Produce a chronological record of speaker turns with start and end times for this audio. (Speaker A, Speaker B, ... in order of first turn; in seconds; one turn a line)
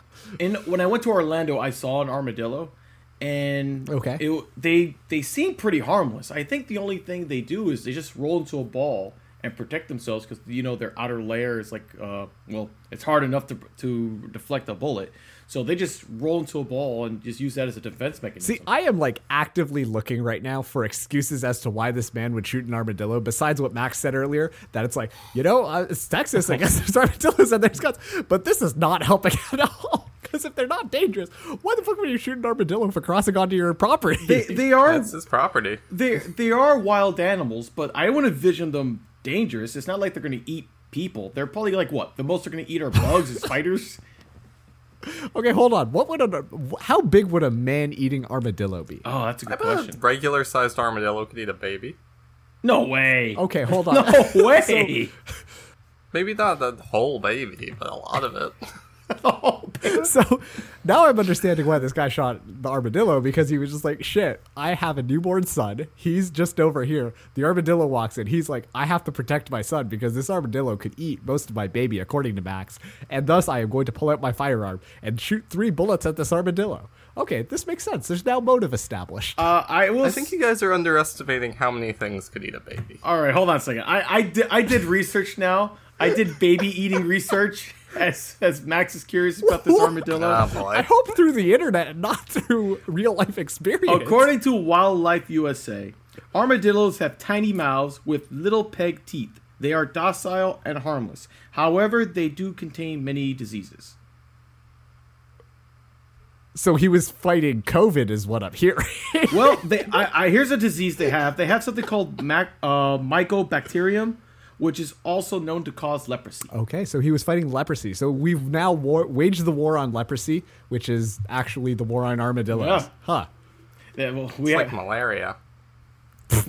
Speaker A: 0.4-18.7
Speaker B: 3.9-4.2
Speaker B: 18.4-34.6
Speaker A: 34.2-35.1
Speaker C: 34.8-35.8
Speaker A: 35.9-44.0
Speaker B: 45.3-49.0
Speaker A: 49.0-50.0
Speaker C: 49.5-52.0
Speaker A: 52.6-55.1
Speaker B: 53.4-54.9
Speaker C: 56.1-58.5
Speaker A: 59.1-60.1
Speaker B: 59.8-79.5
Speaker A: 79.4-80.3
Speaker C: 80.0-83.0
Speaker A: 83.0-90.4
Speaker C: 90.1-90.9
Speaker B: 90.7-94.3
Speaker A: 93.9-104.0
Speaker B: 106.5-109.7
Speaker A: 109.3-116.5
Speaker B: 116.5-123.3
Speaker A: 122.5-122.9
Speaker A: 124.0-124.8
Speaker C: 124.4-125.3